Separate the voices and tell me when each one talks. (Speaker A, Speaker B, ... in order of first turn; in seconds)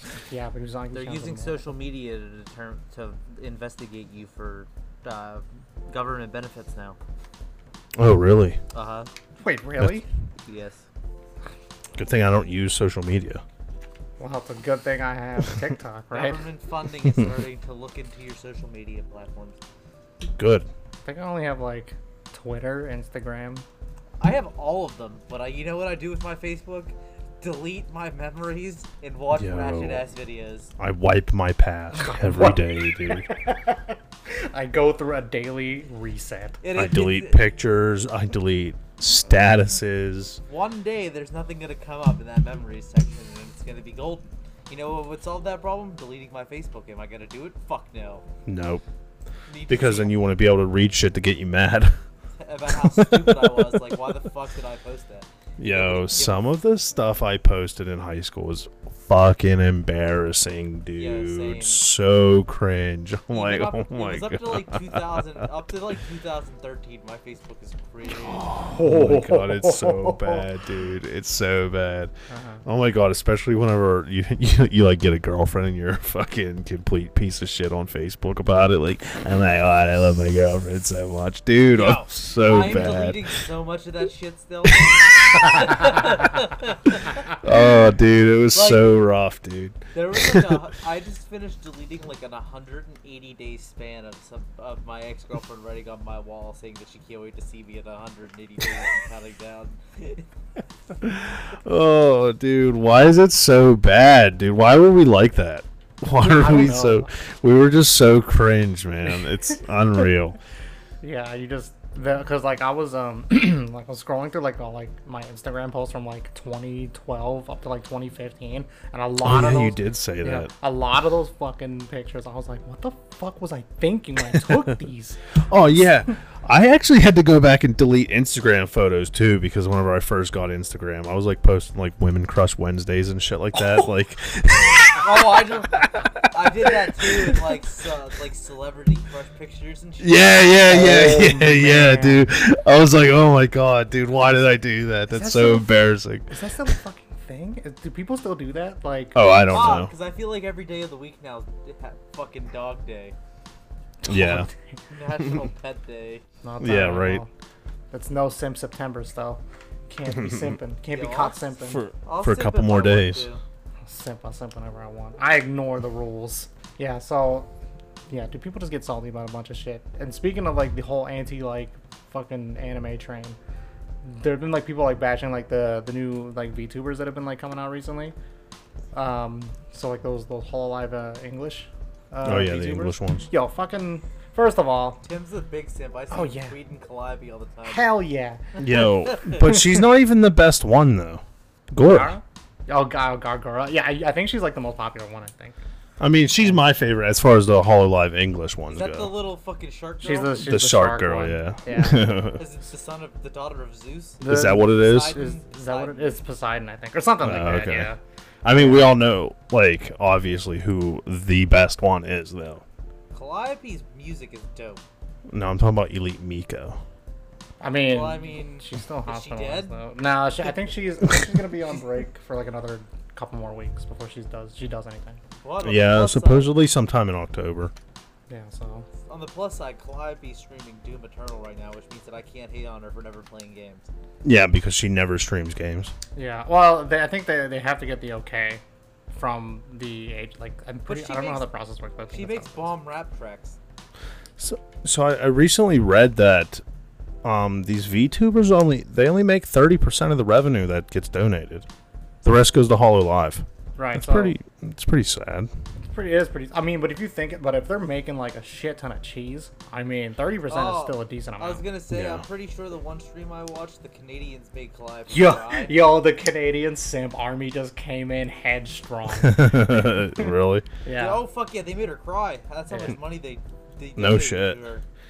Speaker A: 0.2-1.7, 9.4-10.1, 14.2-16.4, 21.0-23.6, 32.0-36.6, 68.6-70.4, 72.3-72.6, 106.2-107.1, 111.0-125.2, 140.7-142.2, 145.1-145.7, 146.3-149.2, 154.0-154.5, 156.4-157.3, 157.9-161.8, 163.8-167.5, 168.1-173.4, 174.0-178.1, 178.9-185.0, 186.1-186.6, 187.7-188.6, 189.3-189.6, 191.8-195.6, 200.0-202.2, 204.2-208.0, 208.5-208.9, 217.6-225.2, 228.3-228.9, 236.2-238.6, 239.1-242.7, 253.8-254.3, 255.8-261.6, 265.1-270.3, 270.8-271.2
Speaker B: 0.9-7.0, 8.7-9.1, 10.4-10.8, 16.1-19.6, 24.2-30.7, 36.6-37.4, 40.5-48.2, 49.5-50.2, 52.4-56.4, 61.0-61.8, 63.3-68.5, 81.7-87.4, 88.5-88.9, 89.9-100.2, 134.9-140.8, 149.5-153.1, 154.9-156.2, 160.9-161.4, 162.0-163.4, 185.0-187.9, 188.6-189.4, 198.7-200.4, 202.3-206.2, 213.1-214.8, 217.9-219.8, 225.4-226.5, 229.1-233.9, 240.9-241.5, 242.1-243.6, 260.5-265.9, 270.9-274.8
Speaker C: 8.0-8.6, 11.9-13.4, 20.3-20.7, 29.3-30.0, 30.8-33.2, 36.7-40.4, 48.5-48.8, 49.7-52.0, 53.0-53.4, 55.6-65.2, 68.2-72.1, 72.7-83.3, 87.4-90.6, 101.0-110.4, 119.2-120.5, 125.5-136.1, 136.7-137.4, 140.0-146.3, 149.1-149.9, 154.0-154.5, 156.6-157.2, 160.2-160.5, 161.7-163.2, 182.2-183.3, 188.6-192.1, 196.0-199.1, 200.4-202.4, 204.2-205.2, 207.2-207.9, 208.4-212.6, 215.3-216.8, 225.6-227.7, 234.2-235.9, 244.4-246.6, 247.2-251.7, 252.2-255.5, 261.9-262.2, 269.2-270.6, 273.9-274.6